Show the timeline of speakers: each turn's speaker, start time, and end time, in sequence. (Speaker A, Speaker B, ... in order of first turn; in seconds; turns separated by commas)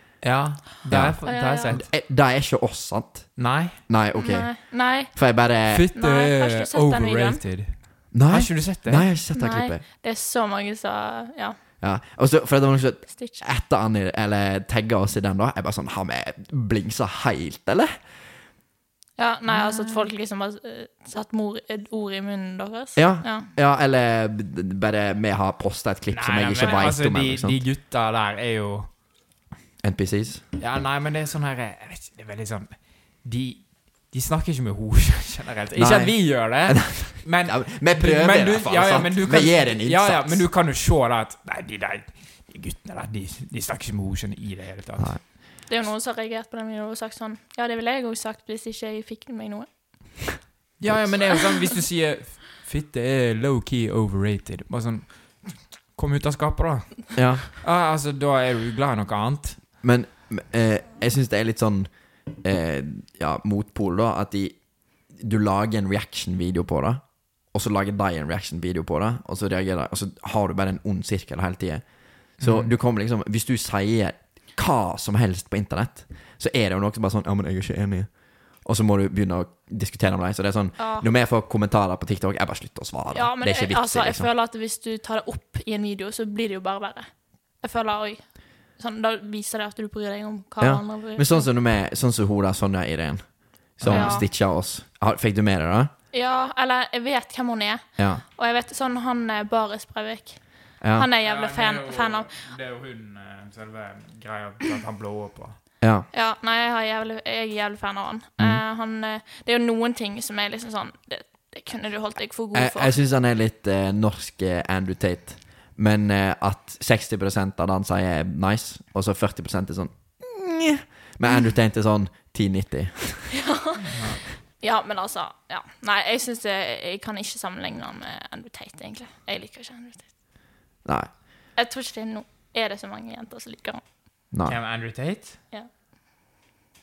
Speaker A: 0.2-1.9, Speaker B: 0.9-5.9, Speaker C: 1.2-1.8, Speaker A: 3.4-3.8, Speaker C: 4.2-5.2, Speaker A: 5.7-9.1, Speaker C: 5.9-7.4, Speaker B: 8.1-9.8, Speaker C: 9.3-11.6, Speaker B: 11.8-17.9, Speaker C: 13.1-13.4, Speaker C: 19.2-23.5, Speaker A: 19.5-20.0, Speaker B: 22.9-27.6, Speaker A: 26.1-28.9, Speaker B: 29.8-30.4, Speaker A: 30.6-45.1, Speaker B: 35.8-40.5, Speaker C: 45.7-50.3, Speaker A: 50.8-59.6, Speaker B: 57.1-57.5, Speaker B: 59.8-84.3, Speaker A: 72.4-72.7, Speaker C: 80.8-81.0, Speaker C: 83.1-87.1, Speaker C: 87.6-91.5, Speaker B: 90.6-95.9, Speaker A: 93.8-94.2, Speaker C: 93.9-94.2, Speaker C: 96.1-102.3, Speaker B: 98.0-98.2, Speaker B: 100.8-101.1, Speaker A: 101.2-105.6, Speaker B: 105.8-106.1, Speaker C: 106.1-113.0, Speaker B: 112.5-123.4, Speaker C: 123.4-124.0, Speaker A: 123.9-124.2, Speaker C: 124.6-130.1, Speaker B: 130.8-131.1, Speaker C: 131.6-133.8, Speaker B: 134.3-134.6, Speaker A: 134.4-135.4